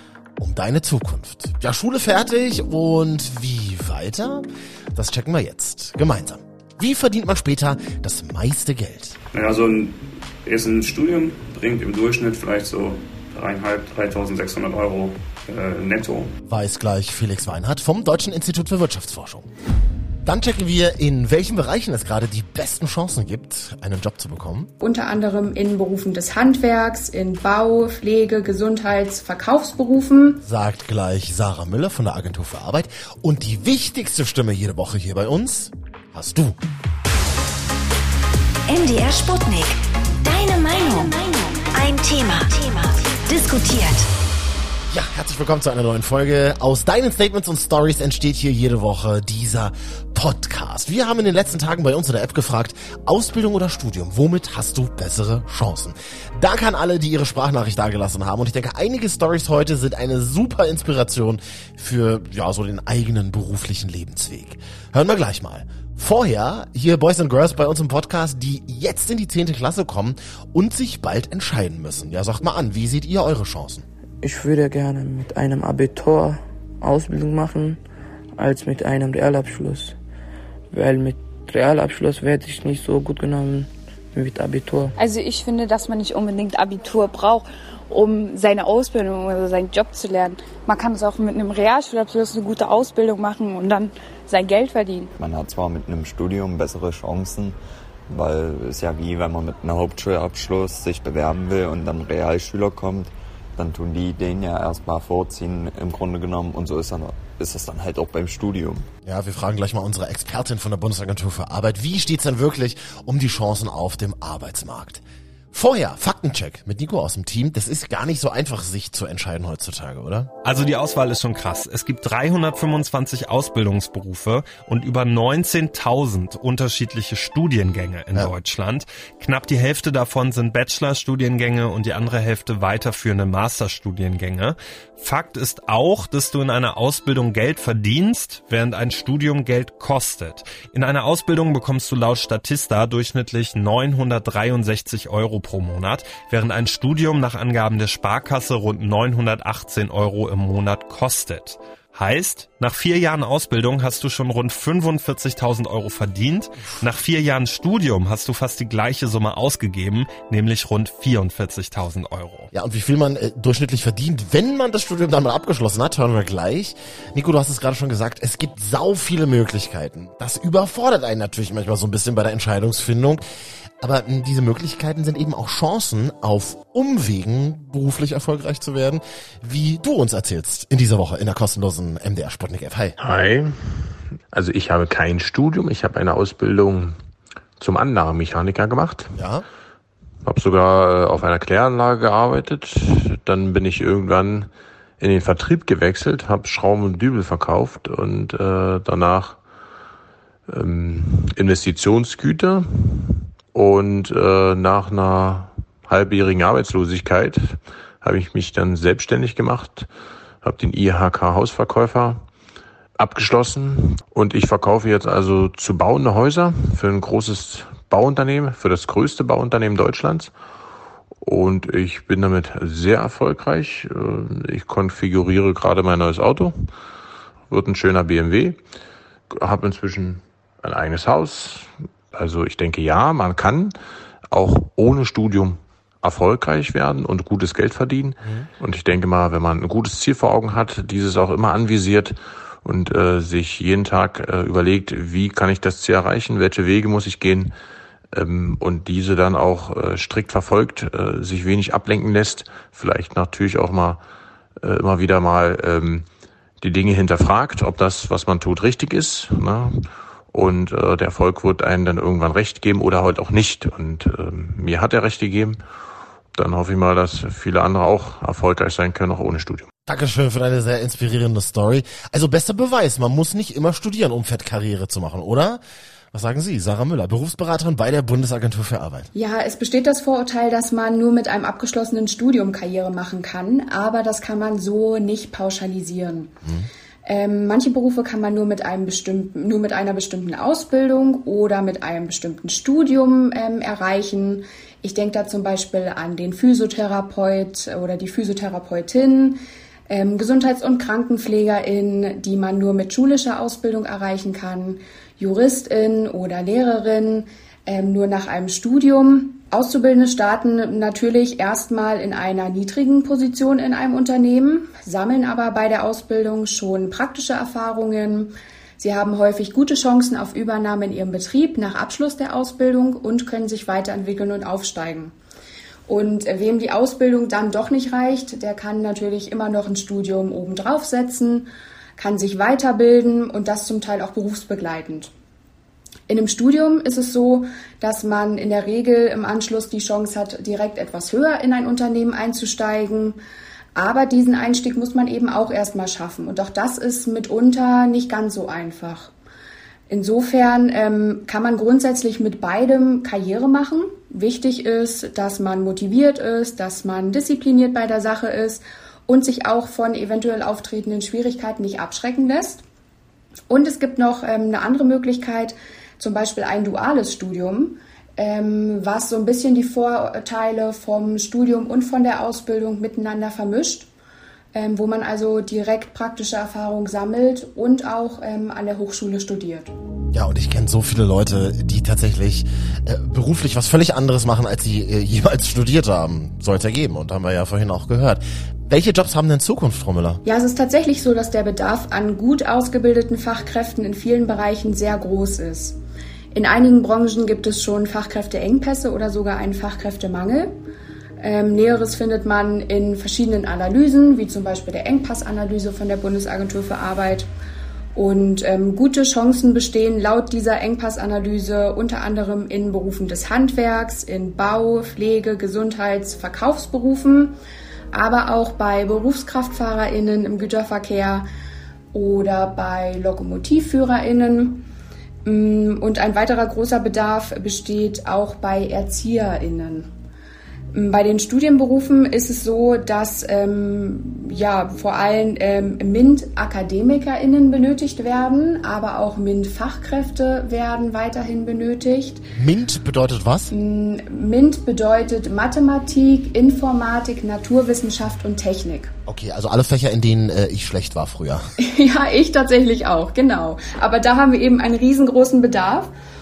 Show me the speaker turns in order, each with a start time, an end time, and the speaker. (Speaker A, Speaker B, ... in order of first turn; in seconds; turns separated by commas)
Speaker A: 0.4-9.2, Speaker B: 9.4-9.7, Speaker B: 10.5-16.2, Speaker A: 16.5-19.5, Speaker A: 20.2-24.7, Speaker C: 24.8-30.4, Speaker A: 30.4-36.6, Speaker D: 38.7-44.1, Speaker A: 44.9-73.8, Speaker E: 74.2-77.8, Speaker E: 78.4-79.9, Speaker E: 80.7-84.9, Speaker F: 85.0-95.1, Speaker G: 95.2-97.5, Speaker G: 98.1-108.9, Speaker A: 109.0-120.3, Speaker H: 120.4-162.5, Speaker A: 162.5-173.2, Speaker A: 173.8-183.0, Speaker I: 183.0-186.9, Speaker I: 187.6-189.2, Speaker A: 189.2-189.4, Speaker I: 190.2-199.4, Speaker I: 200.5-209.9, Speaker I: 210.4-212.2, Speaker I: 213.0-220.3, Speaker I: 221.2-226.7, Speaker I: 227.5-228.6, Speaker I: 229.3-233.7, Speaker I: 234.3-247.5, Speaker A: 238.2-238.5, Speaker I: 248.1-254.0, Speaker I: 254.6-256.0, Speaker I: 256.6-265.6, Speaker I: 266.4-269.7, Speaker A: 269.9-275.6, Speaker A: 276.1-279.1, Speaker C: 279.1-286.3, Speaker C: 287.0-325.1, Speaker C: 325.9-335.1, Speaker C: 336.1-343.2, Speaker C: 343.7-349.1, Speaker C: 349.9-362.6, Speaker C: 363.5-373.9, Speaker C: 374.5-379.7, Speaker A: 380.1-390.2, Speaker C: 390.2-395.8, Speaker C: 396.3-400.5, Speaker C: 401.2-407.3, Speaker C: 407.9-417.3, Speaker C: 417.9-421.2, Speaker C: 421.9-424.6, Speaker C: 425.2-429.9, Speaker C: 430.7-442.2, Speaker A: 442.4-443.5, Speaker C: 443.5-448.9, Speaker A: 449.1-451.4, Speaker C: 451.6-455.9